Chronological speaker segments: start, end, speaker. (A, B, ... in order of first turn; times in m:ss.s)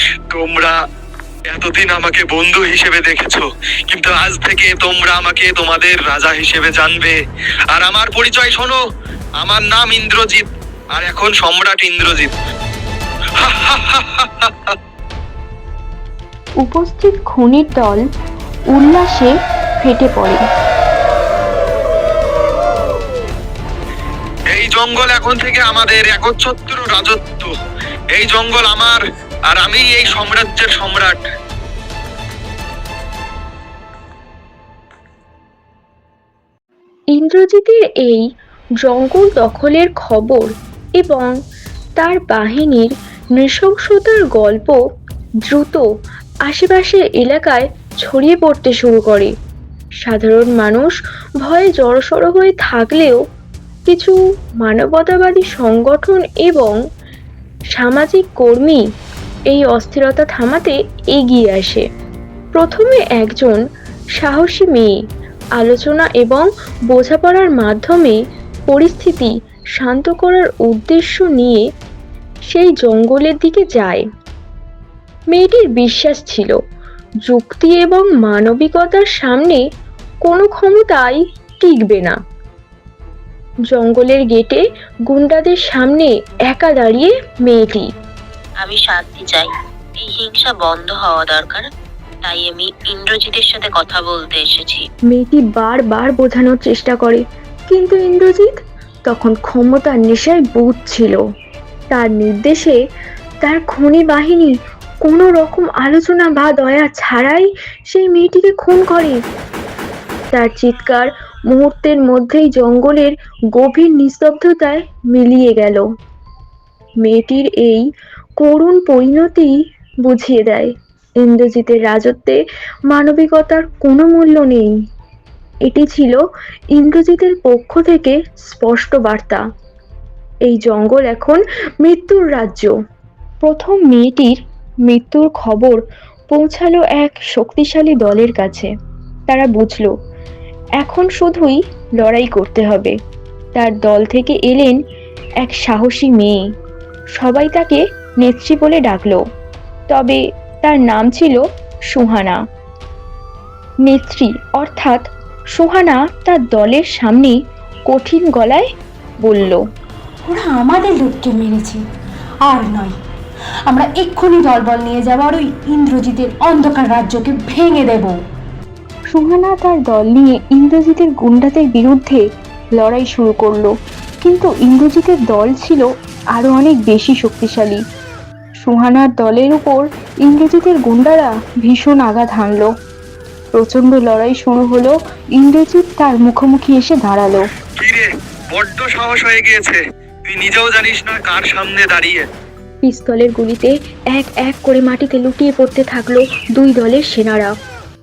0:00.3-0:00.7 A
0:01.5-0:07.2 A
0:07.7-0:08.8 A
0:09.4-0:12.3 A
0:13.4-0:14.7 A
0:16.6-0:18.0 B
0:18.7-0:20.4 B
0:24.5-0:27.5 A
0:28.1-0:29.0 A
0:29.5-0:31.2 A
0:37.1-0:38.2 B
0:38.8-0:40.5 B
0:41.0-0:41.3 B
0:42.0-0:44.8 B
0:45.5-0:45.8 B
0:46.5-0:49.3 B
0:50.0-0:53.2 B
0:53.9-0:56.8 B
0:57.7-0:58.8 B
0:59.5-1:01.8 B
1:02.5-1:03.6 B
1:04.2-1:04.9 B
1:05.6-1:08.2 B
1:08.7-1:11.6 B
1:12.5-1:14.0 B
1:15.3-1:16.6 B
1:17.2-1:19.6 B
1:20.2-1:22.2 B
1:23.7-1:27.9 B
1:28.6-1:31.7 C
1:32.2-1:34.8 C
1:35.1-1:38.5 B
1:39.1-1:41.2 B
1:41.9-1:42.8 B
1:43.4-1:44.5 B
1:45.0-1:49.2 B
1:50.3-1:55.8 B
1:57.0-1:57.9 B
1:58.4-1:59.5 B
2:00.0-2:04.7 B
2:05.7-2:06.2 B
2:06.7-2:09.4 B
2:10.4-2:12.7 B
2:13.4-2:14.4 B
2:14.9-2:15.8 B
2:16.3-2:18.7 B
2:19.3-2:19.9 B
2:20.8-2:22.9 B
2:23.5-2:24.8 B
2:25.4-2:26.4 B
2:27.2-2:29.2 B
2:29.9-2:32.4 B
2:33.8-2:35.0 B
2:35.5-2:37.4 B
2:37.9-2:38.7 B
2:39.2-2:39.6 B
2:40.2-2:41.8 D
2:42.4-2:43.0 D
2:43.7-2:48.2 D
2:49.1-2:52.2 B
2:52.8-2:57.8 B
2:58.6-3:02.7 B
3:03.5-3:07.4 B
3:07.8-3:12.2 A
3:12.8-3:17.5 B